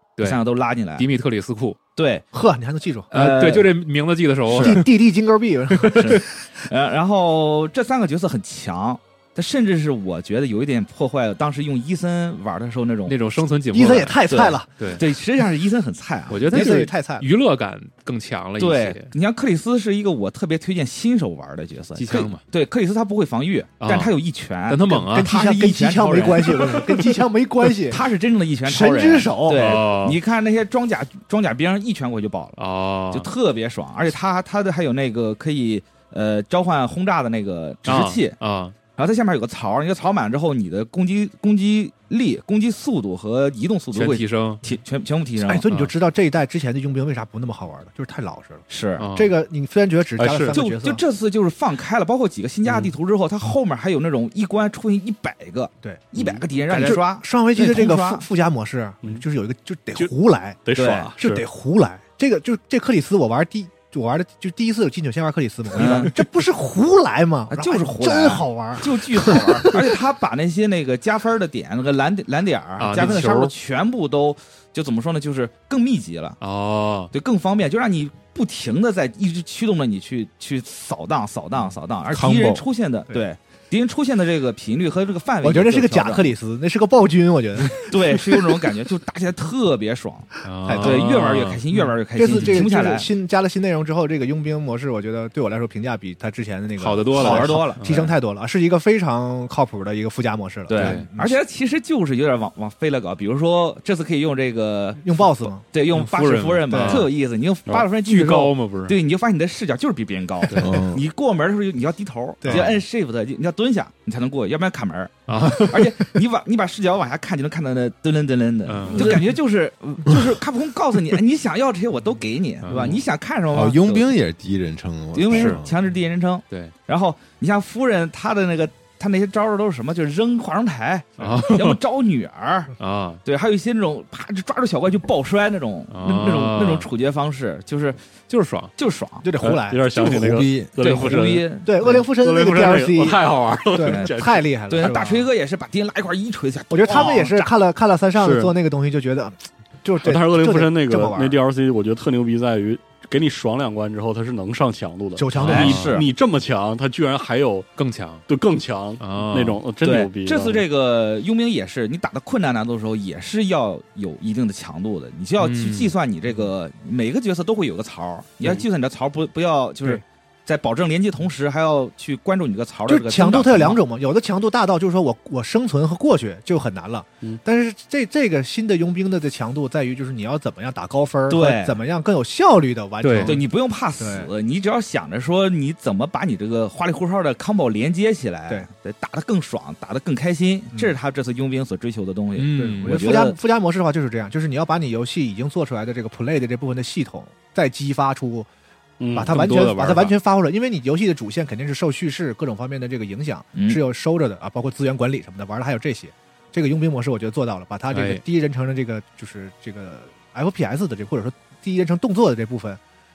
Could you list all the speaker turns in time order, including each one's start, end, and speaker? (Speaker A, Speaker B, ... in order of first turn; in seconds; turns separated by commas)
Speaker A: 0.2-0.4, Speaker B: 0.2-1.1, Speaker A: 1.0-1.8, Speaker B: 1.9-2.2, Speaker C: 2.3-3.1, Speaker B: 3.1-3.7, Speaker A: 3.1-4.8, Speaker B: 4.5-4.8, Speaker C: 4.5-6.3, Speaker B: 5.9-13.2, Speaker A: 13.1-15.0, Speaker C: 13.7-14.7, Speaker B: 14.3-16.7, Speaker A: 16.3-19.1, Speaker C: 16.5-17.3, Speaker B: 18.6-27.1, Speaker A: 21.9-22.4, Speaker A: 23.8-24.1, Speaker A: 24.7-25.3, Speaker C: 24.9-28.1, Speaker B: 27.9-32.6, Speaker C: 28.6-29.8, Speaker A: 29.6-30.2, Speaker A: 32.6-33.3, Speaker B: 33.1-38.4, Speaker A: 37.9-38.8, Speaker B: 38.9-45.7, Speaker A: 43.9-44.6, Speaker C: 45.4-51.0, Speaker B: 48.7-49.1, Speaker A: 49.0-49.4, Speaker D: 50.2-50.6, Speaker B: 50.5-58.2, Speaker A: 56.7-57.0, Speaker C: 56.8-60.6, Speaker D: 60.6-61.4, Speaker B: 60.7-61.1, Speaker C: 61.2-69.9, Speaker B: 65.7-66.1, Speaker A: 65.8-66.1, Speaker B: 67.5-76.4, Speaker A: 72.8-73.5, Speaker A: 76.4-77.1, Speaker B: 77.1-86.3, Speaker E: 82.1-82.6, Speaker C: 85.4-88.7, Speaker B: 87.8-93.1, Speaker C: 90.4-91.0, Speaker A: 90.4-91.6, Speaker C: 92.1-101.4, Speaker A: 92.3-92.6, Speaker A: 96.8-98.0, Speaker B: 97.1-98.0, Speaker B: 100.7-124.1, Speaker A: 100.7-101.1, Speaker C: 105.0-105.6, Speaker A: 105.9-107.1, Speaker C: 106.7-107.1, Speaker A: 108.0-109.0, Speaker A: 110.5-110.7, Speaker E: 110.6-111.0, Speaker C: 112.4-112.7, Speaker A: 112.5-112.8, Speaker A: 115.3-116.1, Speaker A: 118.7-119.2, Speaker A: 122.6-123.0, Speaker E: 123.5-125.7, Speaker B: 125.1-132.7, Speaker A: 125.3-125.6, Speaker A: 131.2-131.8, Speaker A: 132.8-133.2, Speaker B: 133.2-138.0, Speaker A: 135.9-136.9, Speaker A: 138.3-138.7, Speaker B: 138.8-139.3, Speaker C: 139.2-139.8, Speaker D: 139.4-144.9, Speaker E: 139.9-140.7, Speaker B: 140.8-142.0, Speaker C: 141.6-143.2, Speaker C: 143.7-145.3, Speaker B: 143.8-147.5, Speaker C: 146.7-151.4, Speaker D: 148.2-148.5, Speaker D: 150.0-157.7, Speaker C: 155.2-155.9, Speaker A: 155.3-155.9, Speaker B: 155.4-156.1, Speaker A: 157.8-158.2, Speaker D: 158.3-160.6, Speaker A: 159.0-159.6, Speaker B: 159.8-173.8, Speaker A: 165.4-165.9, Speaker C: 172.9-184.3, Speaker B: 181.3-181.8, Speaker A: 183.0-183.4, Speaker B: 183.2-193.4, Speaker A: 192.3-193.1, Speaker C: 192.5-198.5, Speaker D: 199.0-199.3, Speaker C: 199.1-212.8, Speaker A: 199.2-200.2, Speaker B: 203.5-203.8, Speaker A: 207.9-208.2